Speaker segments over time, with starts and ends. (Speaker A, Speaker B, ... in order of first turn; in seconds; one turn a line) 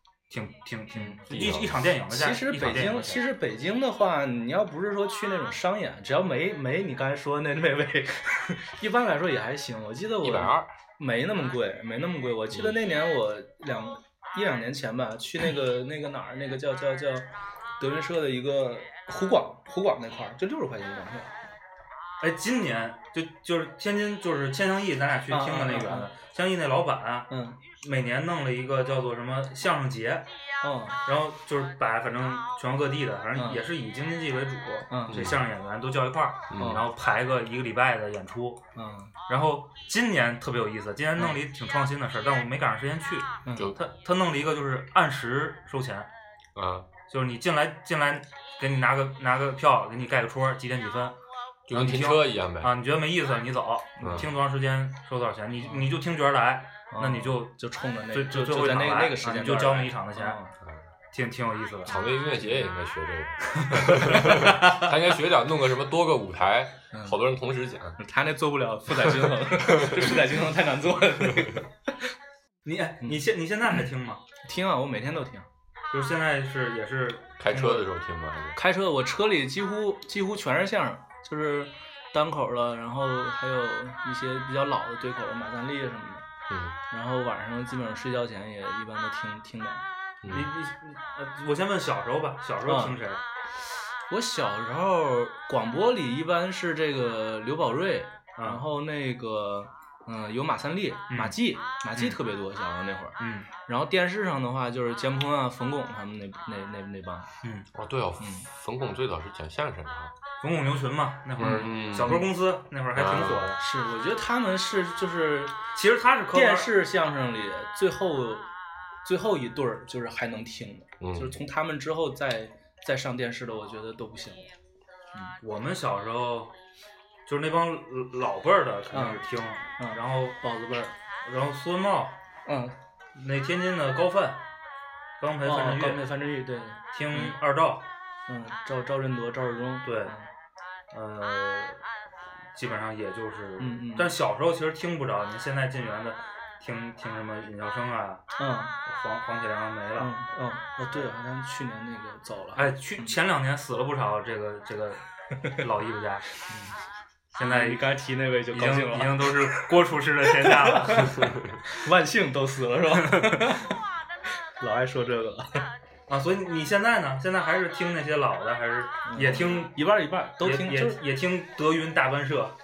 Speaker A: 0.3-3.2
Speaker B: 1.0-1.9
Speaker C: 2.1-21.3
Speaker B: 10.2-10.7
Speaker B: 12.5-12.8
Speaker A: 22.2-30.3
Speaker C: 25.3-26.1
Speaker C: 27.3-27.6
Speaker C: 30.6-31.0
Speaker A: 31.0-38.6
Speaker C: 33.4-33.7
Speaker C: 34.9-35.4
Speaker B: 35.1-35.4
Speaker B: 36.5-36.9
Speaker C: 36.6-36.9
Speaker C: 38.8-39.1
Speaker A: 39.3-46.1
Speaker C: 43.5-43.8
Speaker B: 43.5-43.8
Speaker B: 46.5-46.9
Speaker A: 47.1-51.2
Speaker B: 51.7-52.7
Speaker A: 51.7-57.5
Speaker B: 54.0-54.3
Speaker C: 55.6-55.9
Speaker C: 56.9-60.5
Speaker A: 58.1-60.4
Speaker A: 61.1-62.0
Speaker B: 61.9-68.0
Speaker C: 63.7-64.9
Speaker C: 66.9-67.2
Speaker C: 68.0-72.0
Speaker B: 69.2-70.3
Speaker A: 72.6-74.2
Speaker C: 74.5-75.5
Speaker A: 75.9-77.9
Speaker B: 77.4-78.6
Speaker C: 78.5-86.2
Speaker B: 86.5-86.8
Speaker C: 86.9-89.8
Speaker B: 90.2-90.5
Speaker A: 90.3-93.2
Speaker C: 92.6-93.0
Speaker C: 94.1-107.3
Speaker A: 98.4-98.6
Speaker A: 101.1-101.4
Speaker A: 103.2-103.5
Speaker B: 107.7-110.1
Speaker C: 108.2-108.5
Speaker A: 110.4-113.6
Speaker B: 111.4-112.2
Speaker C: 111.4-112.3
Speaker B: 112.9-113.5
Speaker C: 113.6-115.6
Speaker A: 115.7-116.7
Speaker C: 116.3-118.5
Speaker C: 119.0-124.5
Speaker B: 121.0-121.4
Speaker A: 125.4-126.5
Speaker A: 127.3-132.2
Speaker C: 128.9-129.2
Speaker C: 129.8-130.9
Speaker C: 132.5-132.8
Speaker A: 133.1-134.4
Speaker A: 135.2-136.1
Speaker C: 135.4-137.4
Speaker A: 136.9-137.9
Speaker C: 138.3-140.3
Speaker A: 139.8-140.1
Speaker A: 140.9-141.8
Speaker A: 142.5-148.2
Speaker C: 143.6-144.2
Speaker C: 148.4-148.7
Speaker A: 148.8-150.1
Speaker C: 150.0-153.1
Speaker A: 152.5-156.3
Speaker C: 156.5-156.8
Speaker A: 157.3-157.8
Speaker C: 157.4-163.8
Speaker A: 158.5-161.3
Speaker B: 161.1-161.6
Speaker A: 163.0-163.4
Speaker C: 164.6-165.7
Speaker A: 166.1-169.8
Speaker C: 169.1-171.0
Speaker A: 170.4-172.5